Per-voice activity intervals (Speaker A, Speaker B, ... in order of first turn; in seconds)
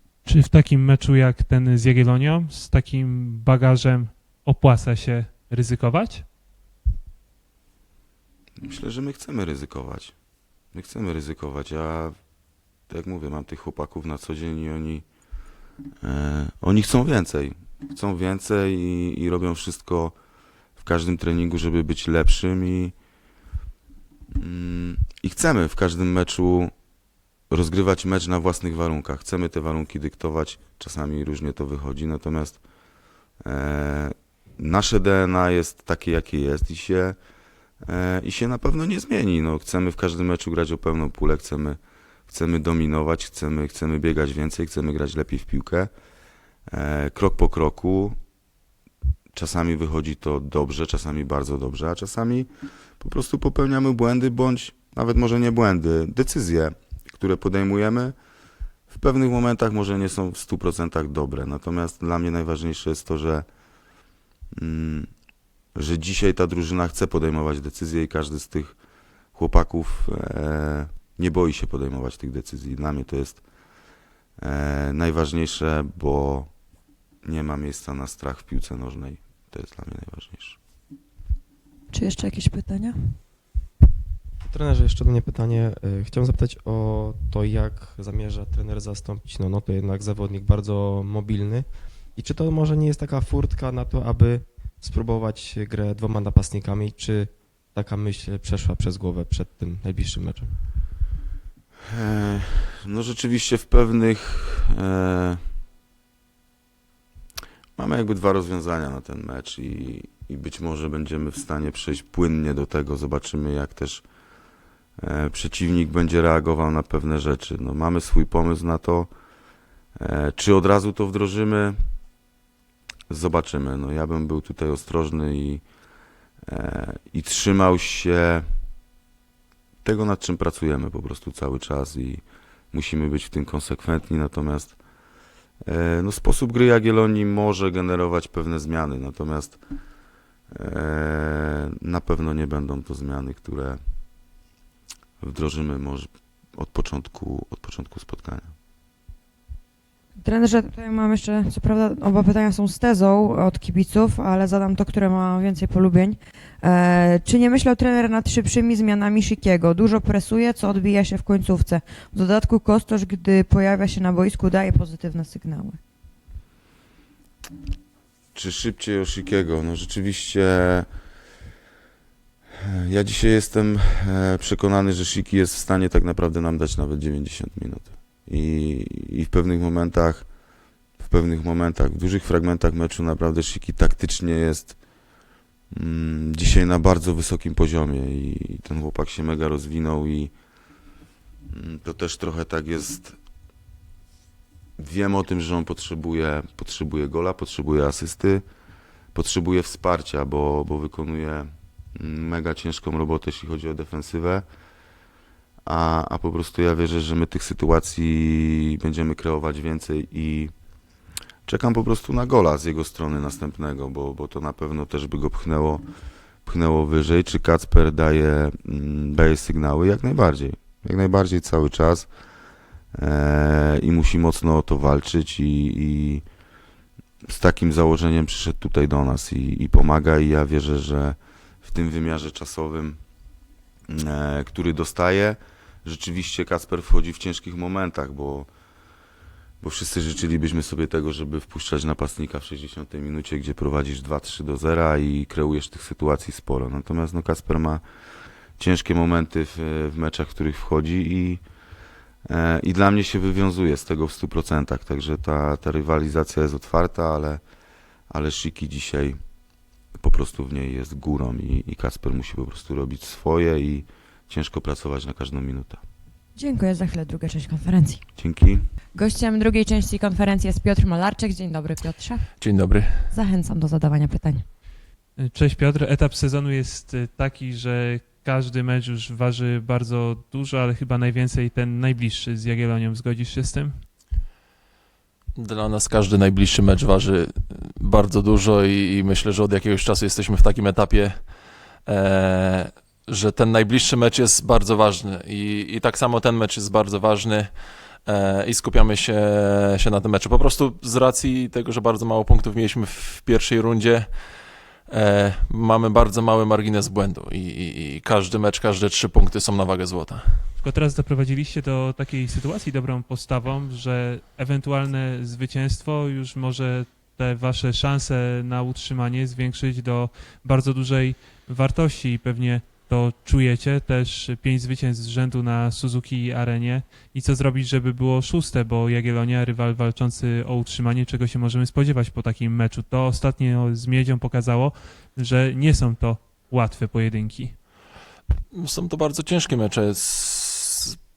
Speaker A: 0.2-6.2, 275.2-283.8, 310.6-337.6
Speaker B: 8.6-10.1, 10.7-12.2, 12.9-15.1, 16.0-20.1, 20.8-22.9, 24.4-26.7, 27.5-32.6, 33.4-37.2, 37.8-45.9, 46.7-48.2, 49.3-52.5, 53.0-58.1, 58.9-63.5, 64.5-65.1, 65.8-68.8, 69.3-73.4, 74.4-76.5, 77.2-80.6, 101.9-105.4, 107.8-114.0, 115.0-119.1, 120.0-121.8, 123.1-125.6, 126.5-128.5, 129.8-134.8, 135.7-139.6, 140.5-143.8, 145.2-148.5, 168.3-170.9, 172.5-180.3, 181.0-184.8, 185.7-190.3, 191.5-193.2, 194.8-198.4, 199.1-204.4, 205.7-210.5, 211.5-215.9, 216.4-222.1, 222.9-226.2, 227.2-233.0, 233.9-238.5, 239.6-247.8, 248.6-251.4, 252.3-257.4, 258.1-259.2, 260.0-265.8, 268.2-268.6
Speaker C: 81.9-83.2, 150.2-165.8, 266.4-268.1, 268.9-272.4, 273.1-274.4
Speaker D: 84.5-100.6
Speaker E: 272.4-273.1, 285.4-291.2, 291.9-297.5, 298.1-304.1, 304.9-310.5, 338.5-341.0